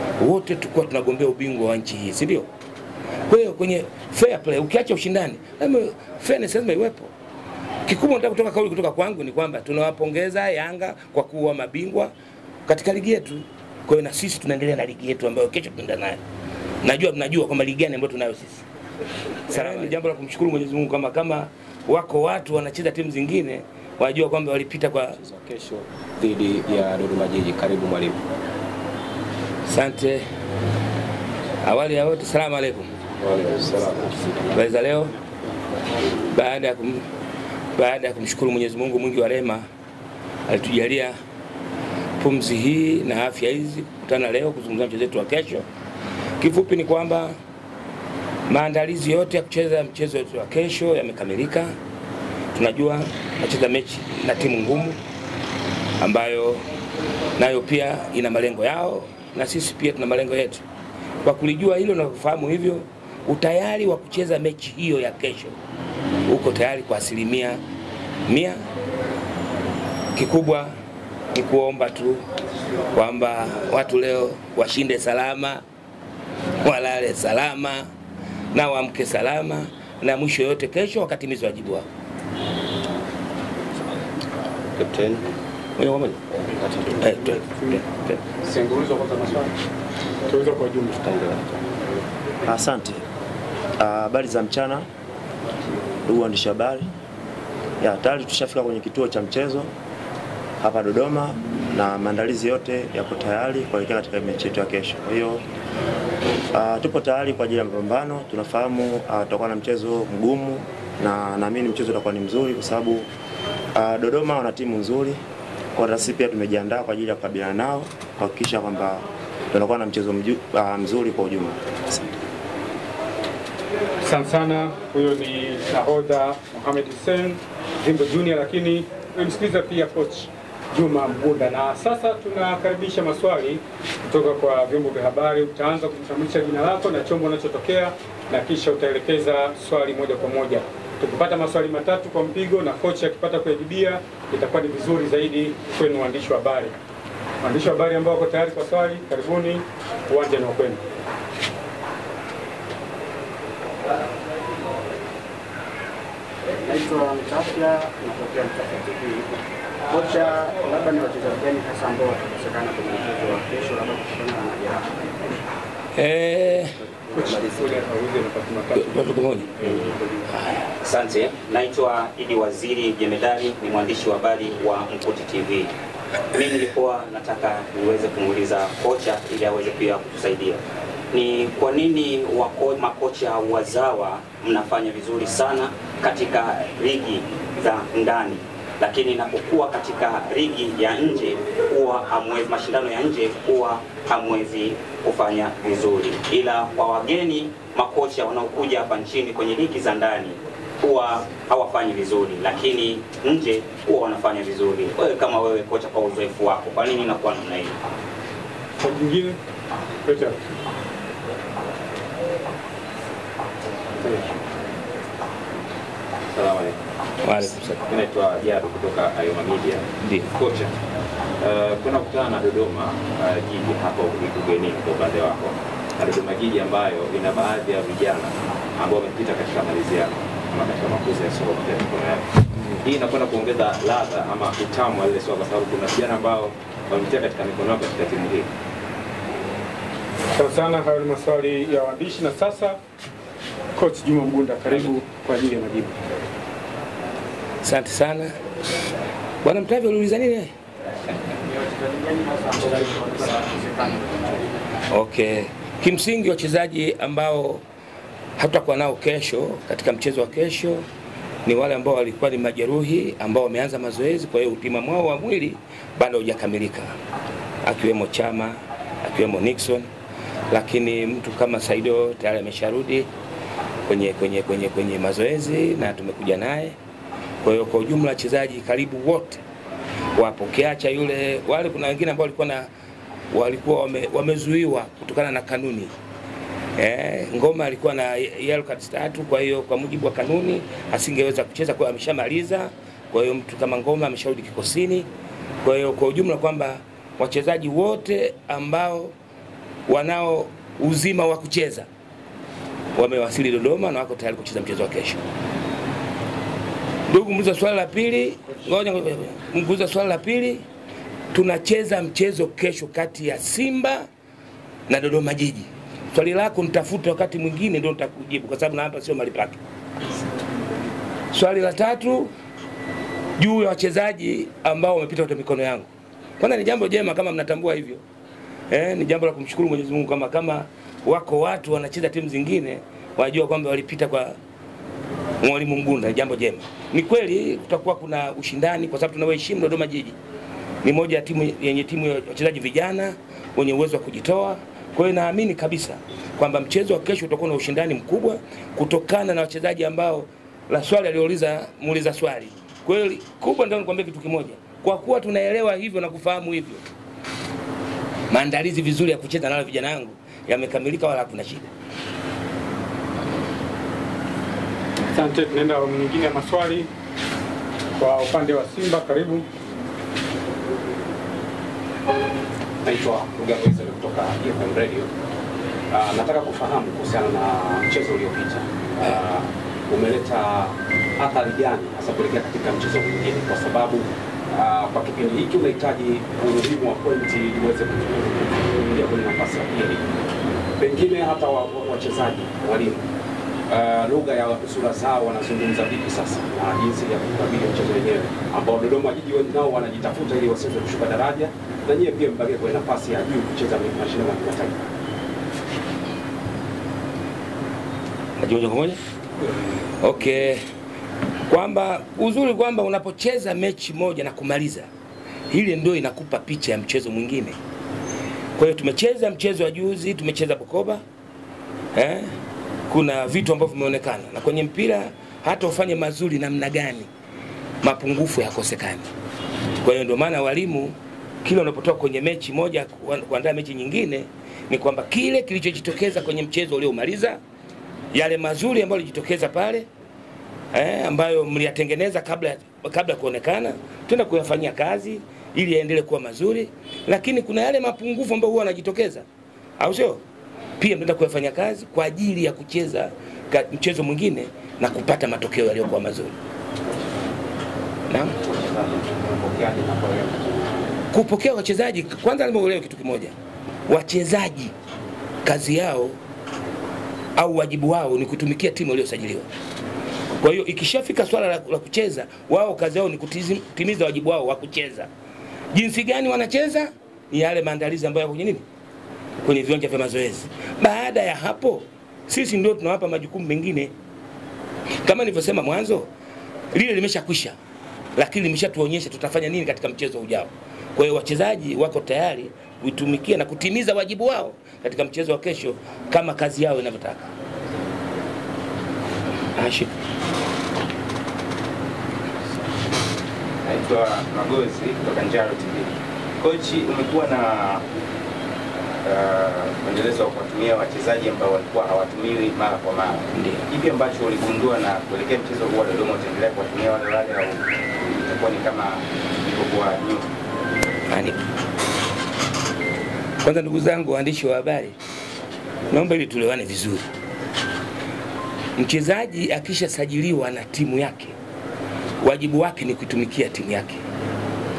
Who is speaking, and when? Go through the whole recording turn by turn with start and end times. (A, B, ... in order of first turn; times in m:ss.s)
0:00.2-0:02.5 A
0:03.3-0:07.1 A
0:07.8-0:12.1 A
0:12.7-0:16.2 A
0:16.8-0:18.6 A
0:19.5-0:25.2 A
0:25.2-0:28.1 B
0:29.6-0:30.2 A
0:31.6-0:32.9 A
0:33.2-0:34.4 B
0:34.5-0:35.1 A
0:36.3-0:37.0 A
0:37.7-0:39.6 A
0:40.5-0:41.2 A
0:42.2-0:45.6 A
0:46.4-0:47.3 A
0:48.5-0:51.7 A
0:52.5-0:55.0 A
0:56.0-0:56.6 A
0:57.4-1:00.6 A
1:01.2-1:05.6 A
1:06.3-1:07.6 A
1:08.2-1:08.6 A
1:10.1-1:10.7 A
1:11.3-1:12.2 A
1:12.9-1:15.6 A
1:16.6-1:17.9 A
1:18.5-1:21.9 A
1:25.8-1:26.2 A
1:27.0-1:28.2 A
1:27.1-1:27.7 C
1:28.4-1:29.5 D
1:30.3-1:31.3 C
1:32.4-1:33.0 E
1:33.8-1:34.8 E
1:36.0-1:36.9 E
1:37.8-1:39.7 E
1:40.6-1:45.4 E
1:46.5-1:53.1 E
1:53.7-1:55.2 E
1:55.7-2:02.0 E
2:04.0-2:26.7 C
2:27.4-2:30.8 C
2:36.6-2:39.3 F
2:39.9-2:44.9 F
2:46.0-2:46.7 A
2:47.1-2:50.3 C
2:48.7-2:49.5 A
2:50.8-2:55.7 G
2:56.3-3:27.8 G
3:28.8-3:29.4 C
3:30.0-3:30.4 C
3:36.3-3:36.8 B
3:37.2-3:37.8 A
3:37.8-3:40.7 B
3:40.0-3:40.3 A
3:41.4-3:58.5 B
4:00.4-4:02.8 C
4:03.8-4:05.9 C
4:07.6-4:08.3 A
4:09.4-4:10.5 A
4:11.5-4:14.5 F
4:14.9-4:17.6 A
4:18.4-4:20.8 A
4:21.4-4:26.9 A
4:27.6-4:29.9 A
4:30.5-4:33.1 A
4:33.8-4:36.8 A
4:37.4-4:39.4 A
4:40.1-4:42.7 A
4:43.3-4:45.9 A
4:46.8-4:55.1 A
4:55.6-4:59.1 A
4:59.9-5:01.9 A
5:02.9-5:05.2 A
5:07.1-5:10.6 A
5:11.3-5:14.0 A
5:14.9-5:19.6 A
5:21.3-5:22.3 A
5:23.4-5:25.9 A
5:26.4-5:28.0 A
5:28.7-5:34.4 A
5:35.4-5:40.2 A
5:40.8-5:56.8 A
5:58.3-6:01.7 A
6:05.1-6:06.9 C
6:08.0-6:09.4 C
6:12.8-6:15.1 D
6:15.9-6:30.0 D
6:30.8-6:33.0 D
6:33.7-6:44.8 D
6:48.4-6:49.0 A
6:50.0-6:50.6 A
6:51.5-6:54.9 A
6:55.5-6:57.6 A
6:58.6-7:01.0 A
7:01.9-7:02.3 A
7:02.9-7:07.1 A
7:07.8-7:09.1 A
7:09.8-7:17.4 A
7:18.1-7:19.9 A
7:20.7-7:29.2 A
7:29.8-7:30.2 A
7:30.8-7:36.3 A
7:38.1-7:38.3 A
7:38.5-7:40.8 D
7:41.1-7:43.3 A
7:43.9-7:44.7 A
7:45.4-7:46.2 A
7:47.4-7:49.5 A
7:50.4-7:55.1 A
7:55.7-7:58.6 A
7:59.4-8:03.9 A
8:05.0-8:06.1 A
8:06.7-8:07.5 A
8:08.2-8:17.3 A
8:19.6-8:19.9 A
8:23.6-8:27.8 H
8:29.0-8:40.2 H
8:33.3-8:33.6 A
8:41.1-8:41.4 A
8:43.4-8:45.0 A
8:45.9-8:47.1 A
8:48.8-8:51.3 A
8:52.2-8:54.0 A